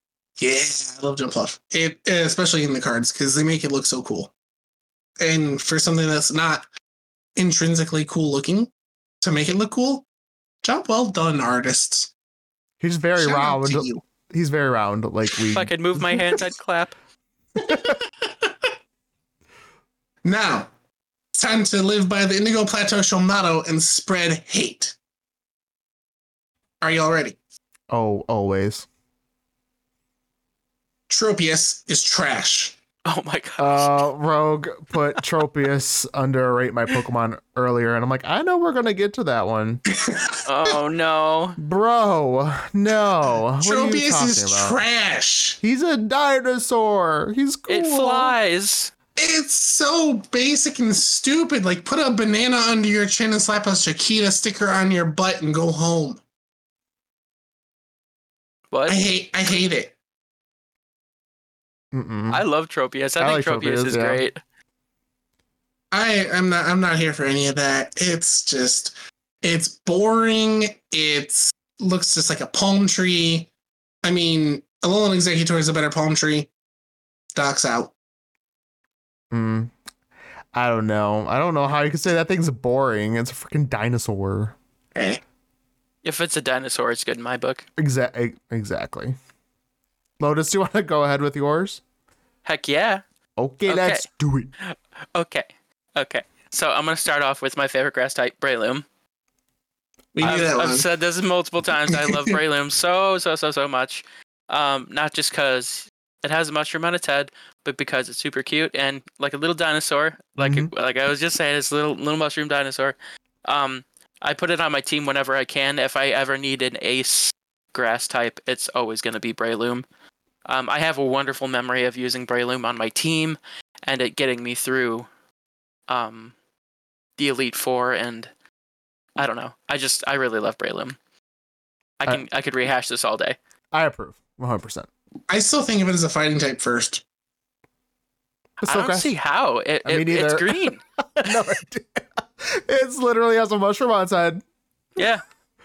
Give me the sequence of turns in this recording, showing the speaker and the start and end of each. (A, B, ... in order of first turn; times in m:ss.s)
0:00.4-0:04.3 A
0:05.2-0:06.6 A
0:07.4-0:08.7 A
0:09.2-0:10.0 A
0:10.6-0:12.1 A
0:12.8-0:16.0 B
0:13.2-0:14.0 A
0:15.5-0:16.9 C
0:17.6-0:18.5 A
0:17.7-0:18.0 B
0:20.2-0:20.7 A
0:21.3-0:24.9 A
0:26.8-0:27.4 A
0:27.9-0:28.9 B
0:31.1-0:32.7 A
0:33.0-0:33.9 C
0:33.6-0:39.8 B
0:39.9-0:40.4 A
0:40.4-0:41.6 C
0:41.6-0:44.8 B
0:43.6-0:45.6 A
0:45.6-0:48.3 B
0:47.7-0:48.9 C
0:49.2-0:56.2 A
0:58.7-0:59.0 C
0:58.9-0:59.9 A
1:01.9-1:02.4 B
1:02.3-1:04.4 C
1:03.2-1:04.2 B
1:05.9-1:13.5 A
1:14.0-1:16.5 A
1:17.4-1:17.9 A
1:19.3-1:19.7 B
1:20.5-1:24.6 B
1:24.9-1:25.2 A
1:26.0-1:27.6 C
1:27.8-1:29.2 B
1:30.2-1:31.8 B
1:32.4-1:33.0 C
1:33.4-1:34.5 B
1:33.6-1:34.0 C
1:34.6-1:38.8 C
1:40.1-1:40.8 A
1:40.2-1:59.8 C
1:41.9-1:42.4 A
1:50.4-1:50.7 B
2:00.4-2:05.1 C
2:05.9-2:06.3 C
2:07.2-2:08.3 C
2:09.2-2:11.0 C
2:12.0-2:13.4 C
2:13.7-2:14.9 B
2:15.3-2:17.0 A
2:18.6-2:19.1 B
2:18.6-2:20.8 C
2:19.8-2:24.4 B
2:25.0-2:25.2 C